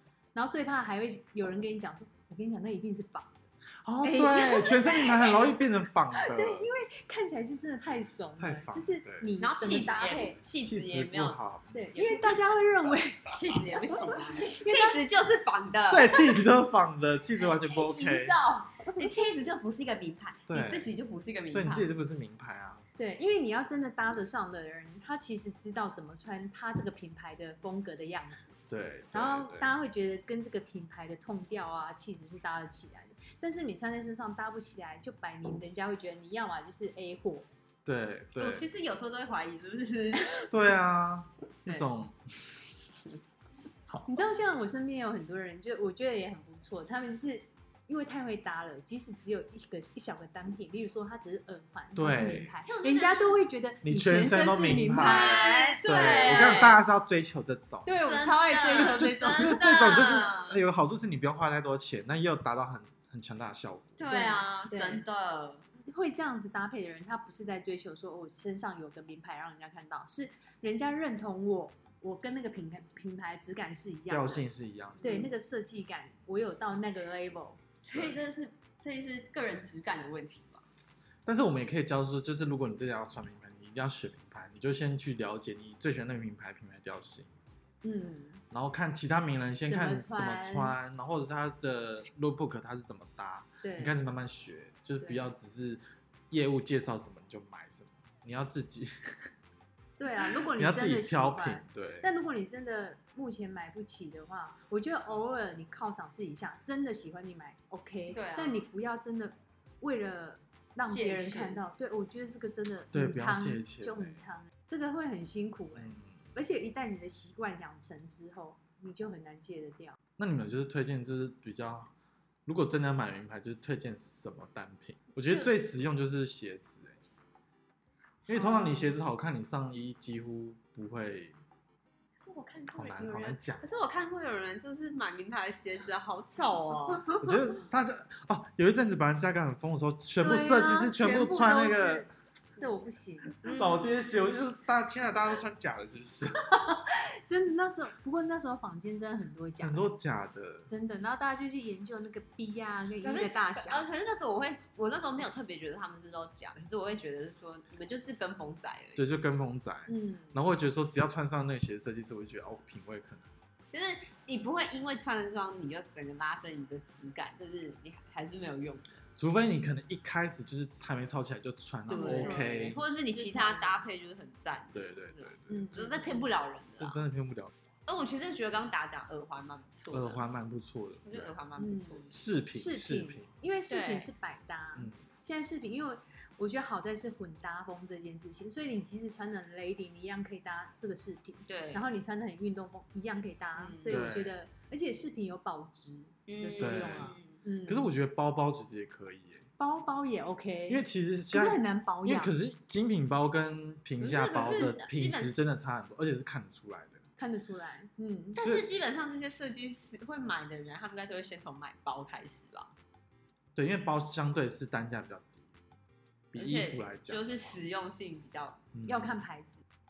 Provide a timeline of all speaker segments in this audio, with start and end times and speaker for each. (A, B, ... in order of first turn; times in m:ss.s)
0:00.4-0:03.4 A
0:03.8-0:06.7 B
0:04.0-0:05.6 A
0:06.2-0:10.4 A
0:08.4-0:09.3 B
0:09.4-0:11.4 C
0:10.6-0:12.0 B
0:11.7-0:13.4 A
0:11.9-0:12.4 C
0:13.3-0:16.2 C
0:14.1-0:15.0 A
0:15.9-0:18.4 B
0:17.6-0:19.1 A
0:19.0-0:21.9 C
0:20.5-0:20.9 B
0:21.5-0:22.9 B
0:23.0-0:28.6 A
0:28.7-0:29.7 B
0:29.1-0:37.5 A
0:37.8-0:38.7 B
0:38.4-0:40.5 C
0:40.5-0:42.8 B
0:44.1-0:56.6 A
0:52.0-0:52.5 B
0:52.6-0:53.4 C
0:53.8-0:58.0 B
0:54.7-0:56.8 C
0:57.9-0:59.6 A
0:58.0-1:00.6 C
0:58.7-1:04.1 B
1:04.0-1:05.6 C
1:04.1-1:05.0 A
1:05.8-1:14.4 A
1:14.1-1:15.2 B
1:15.0-1:17.6 A
1:15.0-1:15.3 C
1:17.8-1:20.6 C
1:17.9-1:18.2 B
1:21.3-1:27.3 B
1:27.8-1:28.4 A
1:28.5-1:39.3 B
1:29.7-1:30.8 A
1:33.6-1:34.0 A
1:40.0-2:00.0 A
1:40.3-1:42.1 B
1:48.1-1:48.7 C
1:50.9-1:51.6 C
1:52.9-1:54.2 B
1:55.8-1:56.1 B
2:00.2-2:01.9 B
2:02.5-2:07.0 B
2:08.3-2:11.4 B
2:08.3-2:08.9 A
2:12.2-2:17.2 C
2:12.7-2:13.7 B
2:17.2-2:22.1 B
2:20.2-2:23.5 A
2:23.4-2:24.0 C
2:23.4-2:26.4 B
2:26.5-2:29.9 A
2:29.6-2:30.7 B
2:30.7-2:33.9 A
2:33.0-2:39.0 C
2:39.0-2:43.3 B
2:39.9-2:40.4 A
2:43.7-2:49.0 C
2:49.2-2:52.8 B
2:51.9-2:53.8 A
2:51.9-2:57.0 C
2:54.7-2:55.7 B
2:55.5-2:56.3 A
2:56.8-2:57.5 B
2:57.9-3:00.2 C
2:59.9-3:01.3 B
3:01.0-3:02.1 C
3:01.6-3:17.8 A
3:02.1-3:03.3 B
3:03.7-3:04.1 C
3:04.8-3:05.0 B
3:11.5-3:11.9 C
3:13.6-3:14.1 C
3:13.9-3:14.3 B
3:16.3-3:17.4 C
3:16.6-3:17.2 B
3:17.7-3:19.5 B
3:19.6-3:22.3 A
3:20.7-3:27.0 B
3:24.0-3:25.4 C
3:27.2-3:28.4 A
3:28.3-3:32.7 C
3:28.4-3:28.7 B
3:33.6-3:35.4 B
3:36.3-3:37.6 B
3:36.4-3:38.6 C
3:38.7-3:39.2 B
3:38.9-3:39.6 A